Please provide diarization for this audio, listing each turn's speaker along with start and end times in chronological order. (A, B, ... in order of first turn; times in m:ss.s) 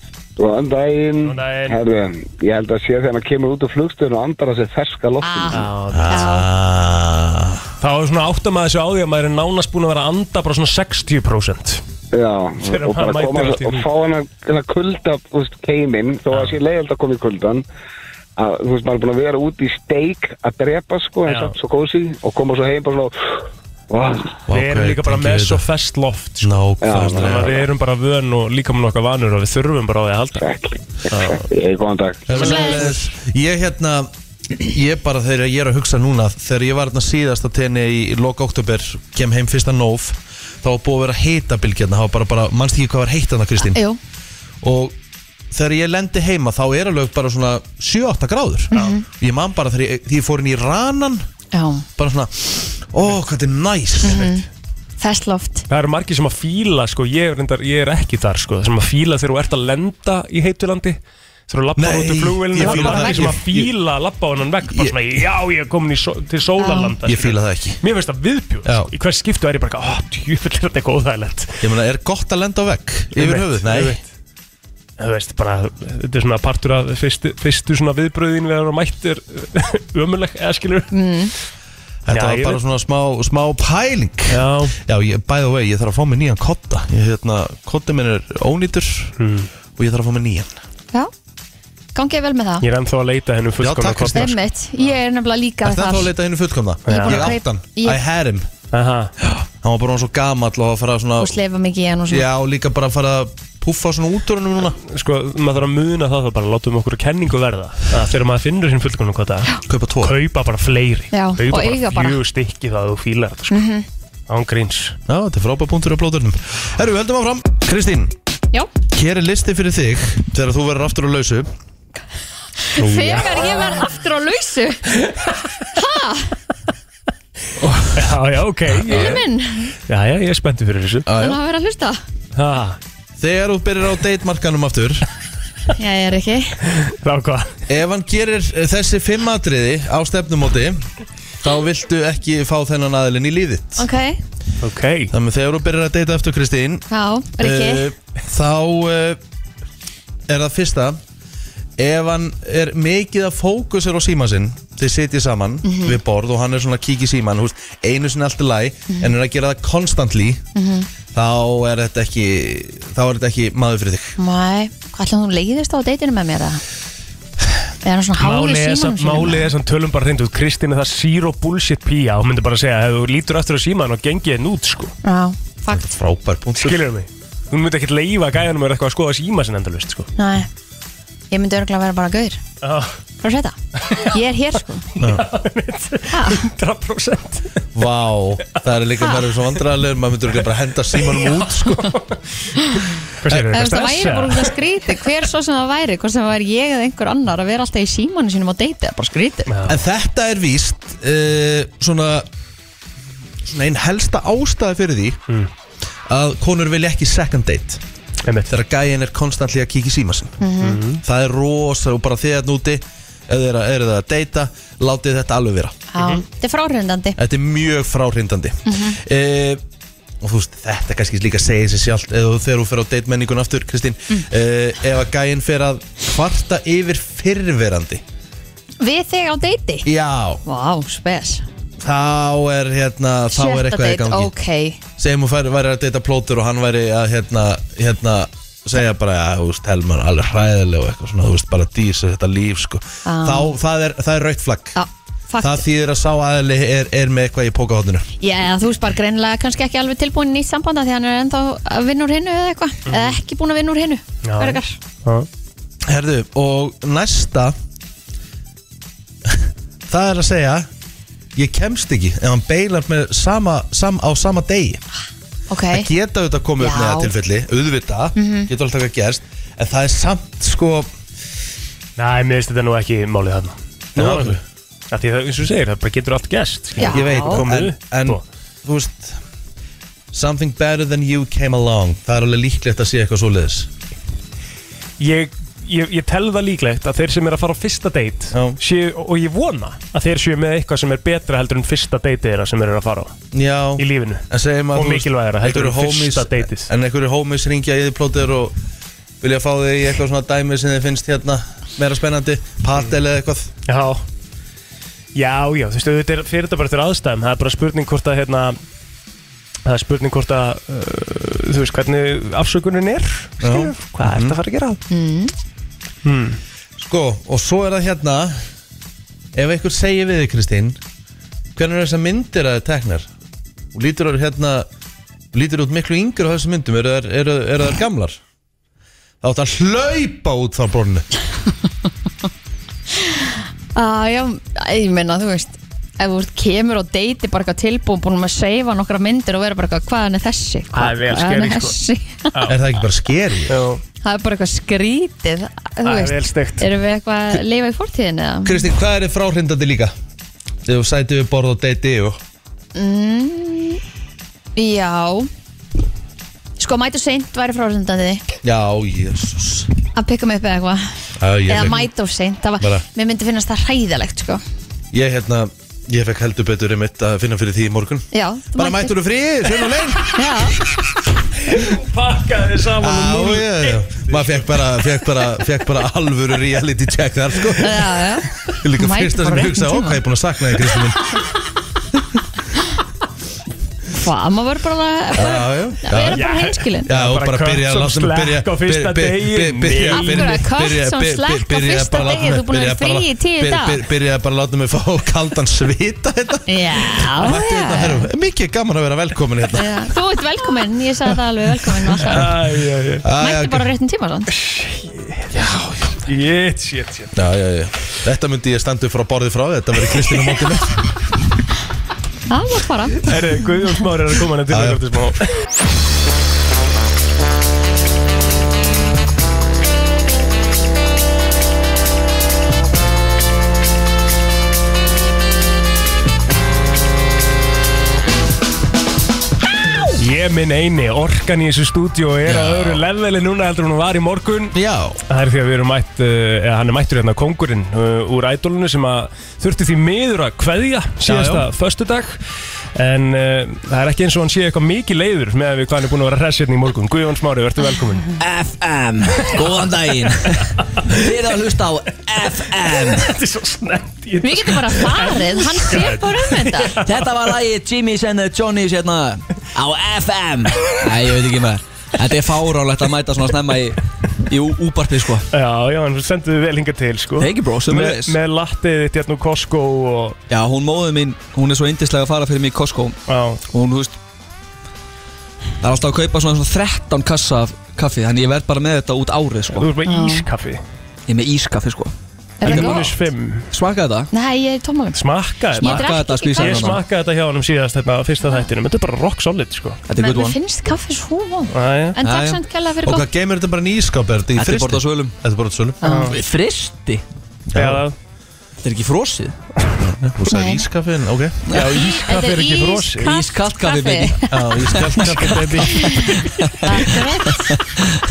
0:00.4-0:05.6 A
0:01.2-0:01.8 B
0:05.2-0:06.4 C
0:05.5-0:06.3 B
0:05.9-0:07.7 D
0:07.8-0:11.8 B
0:12.1-0:17.6 A
0:12.6-0:13.9 B
0:18.4-0:23.1 A
0:21.2-0:21.5 B
0:23.9-0:24.4 A
0:24.5-0:25.6 D
0:24.5-0:30.5 B
0:26.4-0:27.6 D
0:26.8-0:27.6 A
0:30.4-0:32.4 A
0:31.1-0:31.4 B
0:32.3-0:43.8 D
0:32.3-0:33.0 B
0:32.4-0:32.9 C
0:43.6-0:44.0 C
0:44.6-0:44.9 D
0:45.5-0:51.2 D
0:48.7-0:49.0 C
0:51.5-0:51.8 C
0:52.0-0:54.4 D
0:54.0-0:54.4 C
0:55.0-0:55.6 C
0:55.7-1:01.0 B
1:01.5-1:11.6 B
1:01.8-1:03.7 D
1:02.6-1:03.3 C
1:04.7-1:05.0 D
1:06.6-1:06.9 C
1:07.0-1:07.8 D
1:08.6-1:08.9 D
1:11.6-1:14.0 D
1:13.1-1:14.1 B
1:15.0-1:20.9 B
1:20.9-1:21.3 C
1:22.0-1:29.1 D
1:22.1-1:22.6 B
1:24.3-1:24.8 B
1:29.2-1:29.5 B
1:29.8-1:30.5 D
1:31.9-1:32.6 C
1:32.6-1:34.4 B
1:33.6-1:34.4 D
1:34.1-1:36.1 C
1:35.6-1:38.5 D
1:36.9-1:37.3 B
1:36.9-1:38.0 C
1:38.7-1:39.1 B
1:39.3-1:41.4 D
1:41.2-1:42.2 C
1:42.1-1:44.8 D
1:44.8-1:53.6 B
1:49.6-1:50.1 D
1:51.1-1:52.2 C
1:53.5-1:53.8 C
1:54.3-1:55.0 B
1:55.1-1:58.1 D
1:58.9-2:01.5 D
2:02.7-2:05.0 C
2:02.8-2:03.8 B
2:05.7-2:06.3 C
2:07.9-2:09.2 B
2:08.8-2:09.2 D
2:08.9-2:09.7 C
2:09.9-2:11.1 B
2:11.0-2:11.4 D
2:11.1-2:12.0 C
2:12.3-2:12.8 B
2:13.2-2:15.0 D
2:15.8-2:16.6 C
2:16.8-2:17.5 B
2:17.7-2:20.8 D
2:21.4-2:23.8 D
2:23.8-2:24.2 C
2:24.6-2:25.1 B
2:25.1-2:26.8 D
2:26.9-2:27.9 C
2:27.4-2:29.2 D
2:30.3-2:31.0 D
2:31.8-2:40.4 D
2:35.6-2:36.0 C
2:40.5-2:40.9 C
2:41.1-2:44.1 D
2:44.2-2:46.6 C
2:47.8-2:49.5 C
2:48.2-2:54.9 B
2:55.0-2:56.0 C
2:55.7-2:56.8 D
2:56.6-3:00.1 B
3:00.2-3:00.5 C
3:01.3-3:02.4 C
3:02.6-3:03.0 B
3:03.2-3:04.9 C
3:05.0-3:07.5 B
3:06.1-3:06.4 C
3:07.7-3:11.9 D
3:11.0-3:12.2 B
3:12.6-3:12.8 C
3:13.2-3:14.6 B
3:13.5-3:19.5 C
3:19.5-3:19.8 B
3:19.6-3:22.3 D
3:23.4-3:25.2 D
3:26.1-3:27.8 D
3:28.2-3:28.5 B
3:28.5-3:30.4 D
3:30.4-3:30.8 C
3:30.6-3:31.0 B
3:31.0-3:35.8 D
3:35.9-3:37.2 C
3:36.0-3:36.2 B
3:37.2-3:39.6 D
3:38.6-3:39.0 C
3:40.2-3:48.0 D
3:48.8-3:49.9 C
3:49.8-3:50.4 D
3:50.4-3:51.4 C
3:51.8-3:54.3 D
3:53.3-3:54.8 C
3:55.0-4:04.8 D
4:03.0-4:03.5 C
4:04.7-4:05.6 C
4:05.4-4:08.1 D
4:08.2-4:14.8 C
4:12.9-4:13.2 B
4:14.2-4:15.3 B
4:15.9-4:17.5 D
4:19.3-4:20.7 D
4:21.4-4:24.8 D
4:25.5-4:25.9 C
4:25.7-4:30.9 D
4:26.6-4:27.1 C
4:28.2-4:28.5 C
4:32.0-4:34.4 B
4:33.9-4:34.4 D
4:34.9-4:38.2 B
4:36.8-4:37.4 C
4:36.8-4:39.2 D
4:40.1-4:43.7 D
4:45.0-4:53.1 B
4:48.3-4:48.6 D
4:53.3-4:58.5 D
4:53.8-4:56.7 B
4:59.2-5:03.5 D
5:03.7-5:04.0 B
5:05.1-5:08.6 B
5:09.6-5:14.8 B
5:13.4-5:14.4 D
5:14.9-5:15.3 C
5:16.0-5:16.4 B
5:16.8-5:18.4 D
5:19.3-5:20.8 D
5:21.6-5:23.1 D
5:23.7-5:24.7 D
5:25.3-5:28.2 D
5:29.2-5:31.0 D
5:33.0-5:42.3 C
5:40.7-5:41.8 B
5:42.3-5:42.6 B
5:42.4-5:43.6 D
5:43.5-5:43.8 B
5:44.0-5:48.6 C
5:45.8-5:46.7 B
5:48.4-5:49.9 D
5:50.6-5:52.2 D
5:52.7-5:53.8 C
5:54.6-5:55.3 C
5:56.6-5:58.2 C
5:58.4-5:59.7 D
5:59.9-6:00.8 C
6:01.2-6:01.9 D
6:01.5-6:04.4 C
6:04.9-6:10.1 D
6:08.1-6:09.0 C
6:10.1-6:10.6 C
6:11.4-6:14.5 B
6:12.8-6:18.0 D
6:17.6-6:20.0 C
6:18.6-6:21.1 D
6:23.9-6:26.9 C
6:25.1-6:26.2 D
6:26.1-6:30.4 B
6:26.8-6:36.5 D
6:29.8-6:33.8 C
6:36.5-6:38.0 C
6:37.0-6:39.9 D
6:39.5-6:42.3 C
6:42.0-6:42.3 D
6:42.0-6:43.0 B
6:43.0-6:43.6 D
6:43.2-6:44.3 C
6:44.3-6:47.1 B
6:47.1-6:50.8 D
6:52.3-6:53.1 C
6:53.0-6:55.2 B
6:54.5-6:54.8 D
7:10.0-7:14.5 B
7:12.2-7:12.8 D
7:14.5-7:15.0 D
7:15.1-7:22.2 B
7:21.0-7:21.4 D
7:22.7-7:28.1 B
7:28.2-7:33.1 E
7:29.4-7:29.6 B
7:32.7-7:36.9 B
7:34.2-7:36.8 C
7:36.8-7:45.2 E
7:45.3-7:50.2 B
7:47.2-7:48.2 E
7:50.3-7:53.0 E
7:53.1-7:53.4 B
7:53.5-7:54.0 E
7:55.6-7:59.7 E
7:59.5-8:00.6 B
7:59.8-8:00.2 C
8:01.1-8:02.9 E
8:02.4-8:02.9 C
8:02.4-8:03.5 B
8:03.5-8:04.1 E
8:04.1-8:05.0 C
8:04.9-8:09.8 B
8:05.6-8:06.8 C
8:05.6-8:06.8 E
8:09.9-8:10.4 E
8:10.0-8:13.0 C
8:11.5-8:12.0 B
8:12.0-8:12.4 E
8:12.8-8:15.8 D
8:14.4-8:15.1 E
8:15.8-8:16.2 C
8:15.8-8:16.2 B
8:16.1-8:17.0 E
8:17.5-8:17.8 D
8:17.5-8:17.9 B
8:18.6-8:19.4 E
8:19.8-8:21.4 D
8:20.3-8:20.6 C
8:21.5-8:21.8 E
8:21.5-8:23.2 B
8:21.5-8:24.3 C
8:23.0-8:24.2 E
8:24.3-8:25.8 D
8:24.9-8:25.4 E
8:25.2-8:26.2 B
8:25.7-8:27.6 C
8:26.4-8:26.9 E